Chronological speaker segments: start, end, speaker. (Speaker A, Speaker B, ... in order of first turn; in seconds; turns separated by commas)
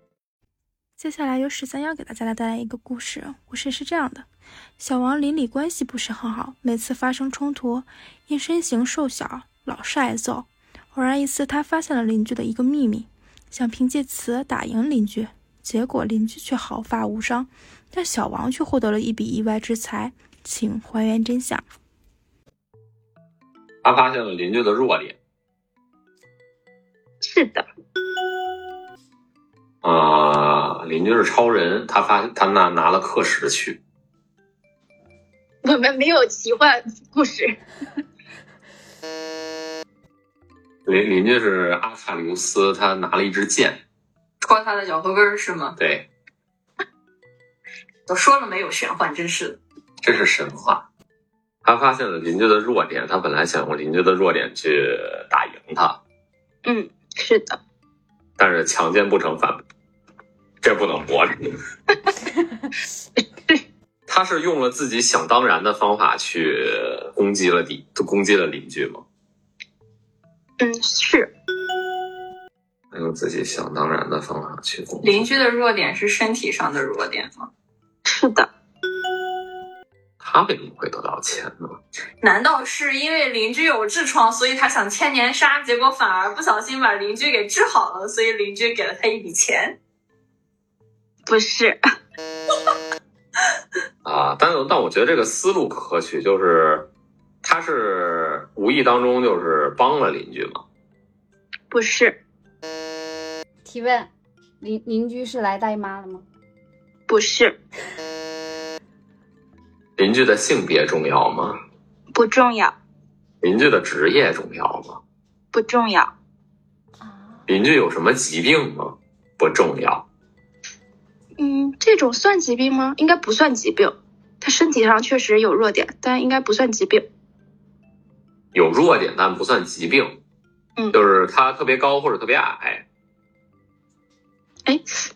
Speaker A: 1.0-4.3, Speaker A: 4.8-21.7, Speaker B: 23.8-25.2, Speaker C: 27.2-27.7, Speaker B: 29.8-33.8, Speaker C: 35.6-37.6, Speaker B: 40.9-43.8, Speaker D: 44.4-45.7, Speaker B: 45.8-46.1, Speaker D: 48.1-49.6, Speaker B: 50.0-50.9, Speaker B: 51.6-56.0, Speaker C: 56.6-57.6, Speaker B: 58.4-59.6, Speaker B: 60.6-61.5, Speaker B: 64.1-69.0, Speaker C: 70.6-71.3, Speaker B: 72.9-75.5, Speaker D: 75.5-77.5, Speaker C: 78.0-78.5, Speaker B: 80.2-81.8, Speaker D: 82.2-89.8, Speaker C: 91.3-91.8, Speaker B: 94.0-96.9, Speaker B: 97.4-100.7, Speaker C: 101.7-102.2, Speaker E: 103.6-106.3, Speaker C: 107.1-107.6, Speaker B: 110.0-111.6, Speaker C: 112.1-112.8, Speaker B: 113.4-115.0, Speaker C: 115.5-116.1, Speaker E: 117.0-117.5, Speaker B: 117.5-120.1, Speaker C: 121.4-127.1, Speaker B: 128.5-130.2, Speaker B: 130.9-132.9